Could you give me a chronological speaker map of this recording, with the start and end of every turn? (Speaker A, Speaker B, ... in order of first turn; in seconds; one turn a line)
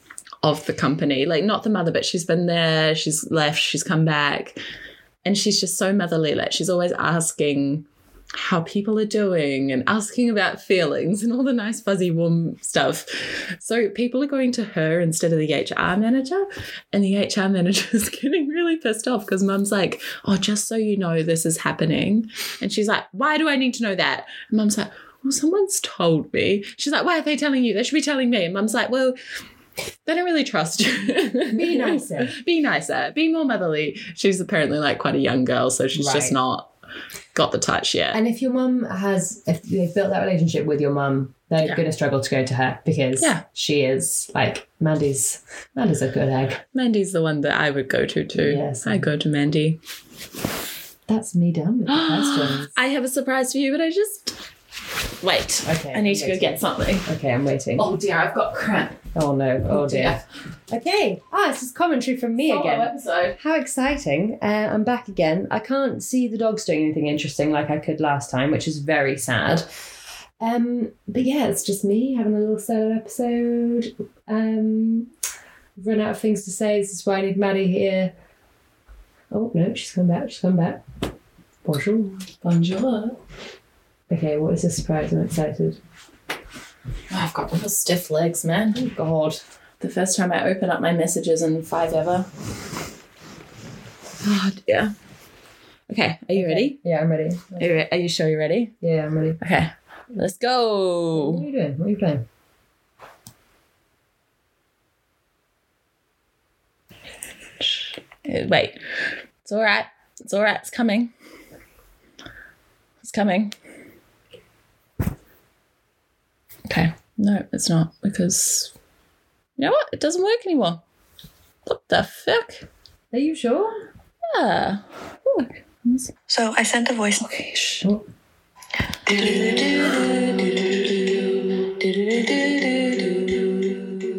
Speaker A: 0.4-4.6
Speaker A: 5.2-29.1
Speaker A: 30.0-36.7
Speaker B: 31.5-32.3
Speaker B: 35.9-36.4
Speaker A: 37.3-38.2
Speaker B: 38.1-46.6
Speaker A: 46.7-49.8
Speaker B: 48.3-49.1
Speaker B: 51.1-52.7
Speaker A: 51.9-54.4
Speaker A: 55.2-57.1
Speaker B: 55.6-57.9
Speaker A: 57.8-59.0
Speaker B: 59.1-69.6
Speaker A: 59.7-60.2
Speaker A: 62.4-63.4
Speaker B: 70.4-75.1
Speaker B: 75.8-78.1
Speaker B: 79.3-80.8
Speaker B: 81.6-82.3
Speaker A: 82.4-83.2
Speaker B: 84.1-85.8
Speaker A: 87.1-88.8
Speaker B: 88.7-89.4
Speaker A: 89.8-92.3
Speaker A: 94.2-94.9
Speaker A: 95.9-96.8
Speaker B: 96.3-97.7
Speaker A: 97.6-98.7
Speaker B: 98.8-99.4
Speaker A: 99.4-101.4
Speaker B: 101.1-102.2
Speaker A: 107.6-111.1
Speaker A: 113.0-113.5
Speaker A: 116.7-118.7
Speaker A: 119.6-120.8
Speaker A: 121.7-122.7
Speaker B: 123.1-123.8
Speaker A: 124.2-126.3
Speaker C: 126.3-127.2
Speaker A: 127.1-127.8
Speaker C: 129.1-131.2
Speaker C: 132.4-132.7